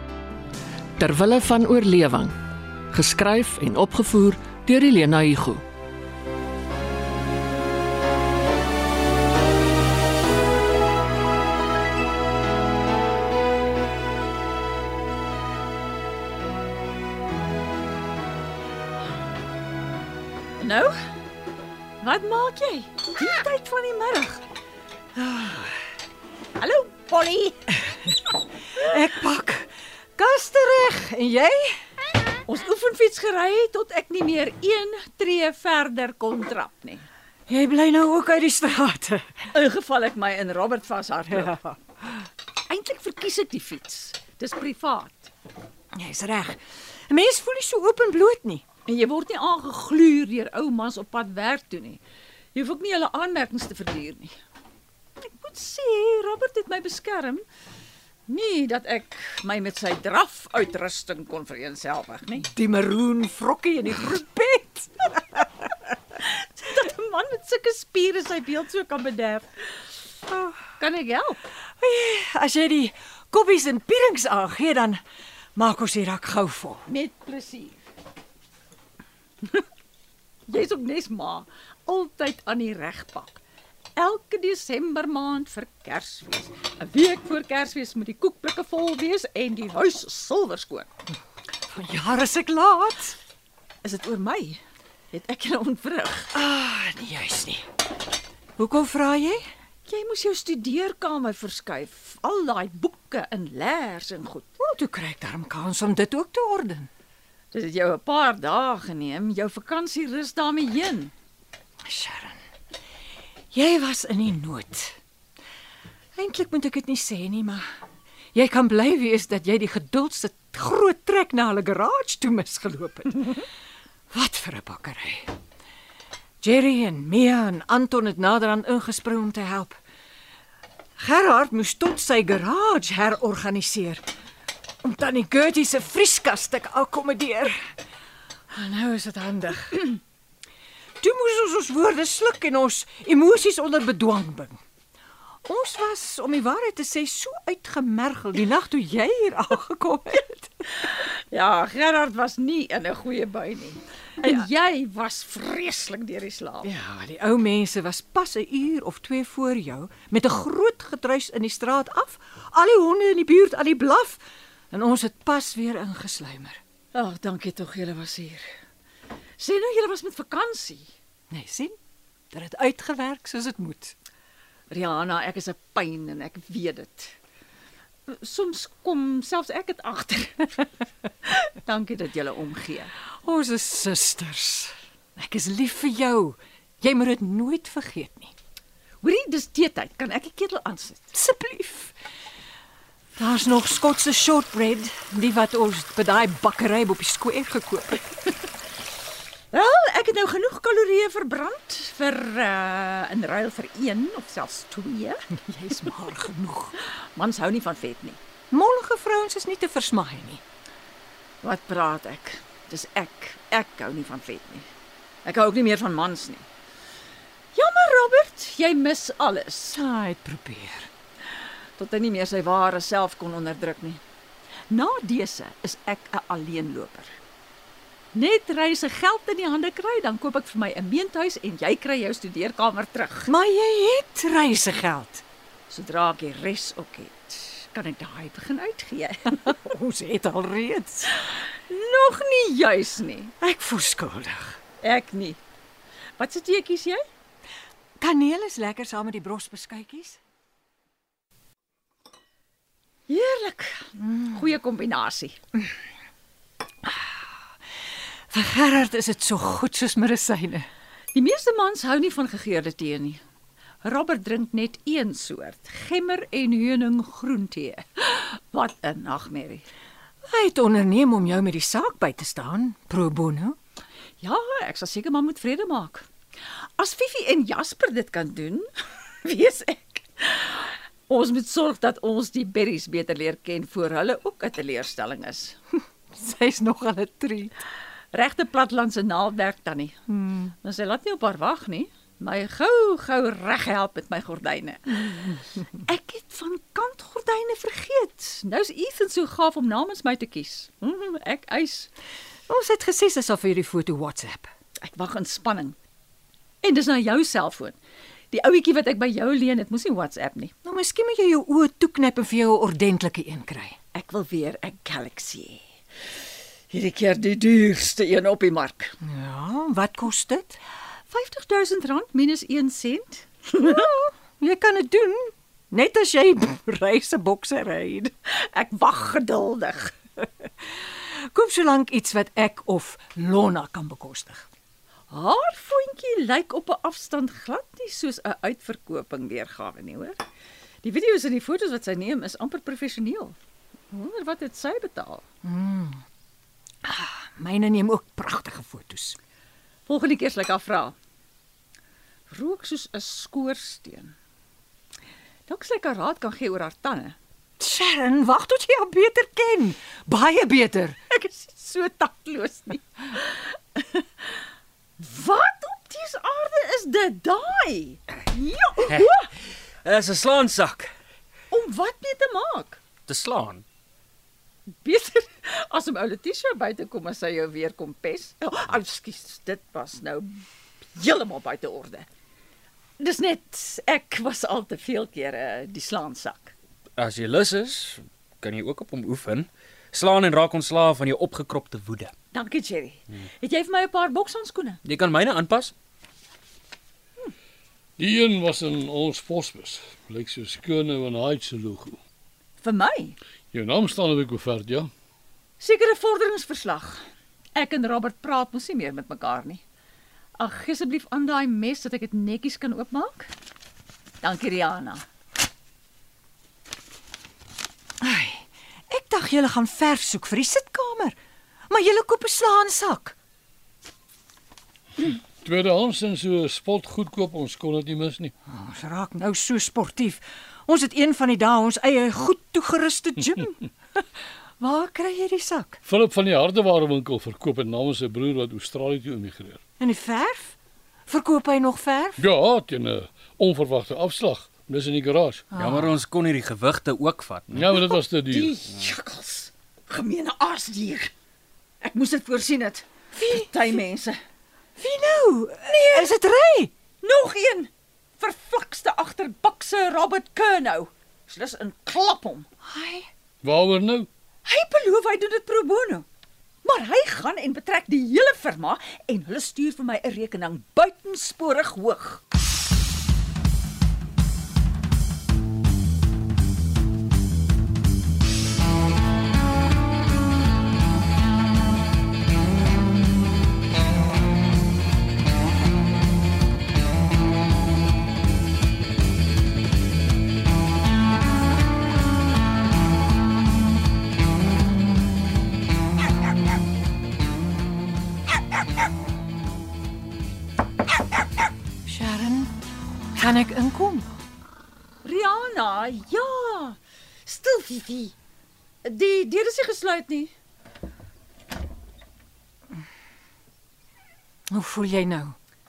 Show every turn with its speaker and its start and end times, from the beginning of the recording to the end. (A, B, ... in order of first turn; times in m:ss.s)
0:01.0-0:02.4 A
0:02.9-0:05.6 A
0:20.6-0:20.9 B
0:22.0-0:24.4 B
0:25.2-0:25.8 C
0:26.6-0:27.7 B
0:28.1-0:31.8 C
0:32.5-0:37.0 B
0:37.5-0:39.5 C
0:39.5-0:41.6 B
0:41.3-0:41.8 C
0:42.7-0:45.3 B
0:45.9-0:48.6 C
0:48.9-0:52.0 B
0:52.5-0:54.3 B
0:55.2-0:57.4 B
0:58.3-1:02.5 B
1:02.4-1:05.5 C
1:06.2-1:09.5 B
1:10.8-1:11.4 B
1:11.8-1:15.0 C
1:15.6-1:16.8 C
1:16.9-1:17.8 B
1:20.5-1:23.4 B
1:24.0-1:30.9 B
1:31.7-1:33.2 C
1:33.8-1:36.3 B
1:36.3-1:37.6 C
1:38.6-1:39.5 C
1:39.8-1:44.5 B
1:44.6-1:46.9 C
1:47.5-1:51.1 B
1:51.8-1:52.4 C
1:53.5-1:55.0 C
1:56.2-1:57.6 C
1:58.3-2:03.4 C
2:04.1-2:05.3 C
2:06.4-2:09.8 C
2:11.0-2:14.0 C
2:14.8-2:17.7 C
2:18.5-2:20.0 C
2:21.0-2:24.6 C
2:25.4-2:30.6 C
2:30.8-2:36.7 B
2:34.2-2:34.5 C
2:36.6-2:46.6 C
2:46.9-2:48.5 B
2:49.4-2:50.9 B
2:51.3-2:51.7 C
2:52.3-2:53.9 C
2:54.7-2:57.2 B
2:58.1-3:00.7 B
3:01.2-3:02.9 B
3:03.2-3:08.3 C
3:09.0-3:11.1 B
3:11.1-3:11.9 C
3:13.2-3:18.2 C
3:19.5-3:25.2 B
3:25.5-3:26.7 C
3:27.1-3:28.2 B
3:28.5-3:30.4 C
3:31.4-3:34.7 B
3:35.2-3:36.4 B
3:37.5-3:39.8 B
3:39.7-3:40.9 C
3:41.8-3:44.0 B
3:44.7-3:47.1 B
3:48.1-3:53.3 B
3:53.3-3:55.2 C
3:55.7-3:59.6 B
3:59.4-4:01.1 C
4:01.1-4:03.3 B
4:03.4-4:04.6 C
4:04.8-4:05.4 B
4:06.2-4:07.0 B
4:08.0-4:10.2 C
4:13.1-4:15.4 B
4:18.3-4:20.7 C
4:21.1-4:23.2 B
4:23.8-4:29.6 B
4:30.3-4:33.6 C
4:34.2-4:36.1 B
4:36.8-4:38.7 B
4:39.2-4:45.6 B
4:46.1-4:47.5 C
4:48.1-4:50.0 B
4:50.1-4:50.5 C
4:50.6-5:01.9 B
5:02.5-5:04.5 C
5:04.8-5:05.8 B
5:06.6-5:07.8 B
5:08.3-5:10.5 B
5:10.6-5:13.8 C
5:13.9-5:15.6 B
5:16.7-5:19.0 B
5:19.0-5:20.6 C
5:21.1-5:23.8 B
5:23.6-5:28.1 C
5:28.2-5:30.0 B
5:30.8-5:34.5 C
5:35.1-5:40.2 B
5:40.8-5:43.4 B
5:43.9-5:45.2 B
5:45.4-5:46.0 C
5:46.8-5:49.2 C
5:49.8-5:50.9 B
5:52.3-5:54.1 B
5:55.5-5:57.2 B
5:57.6-6:01.0 C
6:01.1-6:04.4 B
6:05.0-6:09.3 B
6:09.8-6:10.9 D
6:11.5-6:12.8 B
6:13.1-6:13.6 D
6:14.8-6:22.1 B
6:23.0-6:26.5 B
6:27.0-6:32.1 D
6:32.3-6:34.8 B
6:34.8-6:35.7 D
6:38.0-6:42.0 E
6:42.6-6:43.2 B
6:43.5-6:44.9 E
6:45.6-6:47.0 B
6:47.6-6:49.6 B
6:50.4-6:53.3 B
6:54.2-6:55.0 B
6:58.0-7:01.2 C
7:01.7-7:03.2 C
7:05.0-7:08.3 E
7:08.4-7:14.0 C
7:14.6-7:15.8 C
7:15.8-7:19.6 E
7:19.8-7:22.2 C
7:22.2-7:25.5 E
7:25.5-7:25.9 C
7:25.6-7:27.5 D
7:27.5-7:28.6 E
7:28.3-7:31.1 B
7:31.8-7:34.2 B
7:33.2-7:33.8 C
7:34.8-7:36.7 C
7:35.7-7:36.1 B
7:37.0-7:42.5 B
7:42.6-7:43.1 C
7:43.4-7:44.1 E
7:44.4-7:46.0 B
7:46.6-7:52.2 B
8:21.8-8:22.5 C
8:23.2-8:24.2 C
8:25.0-8:28.1 B
8:28.8-8:30.3 B
8:34.5-8:35.4 C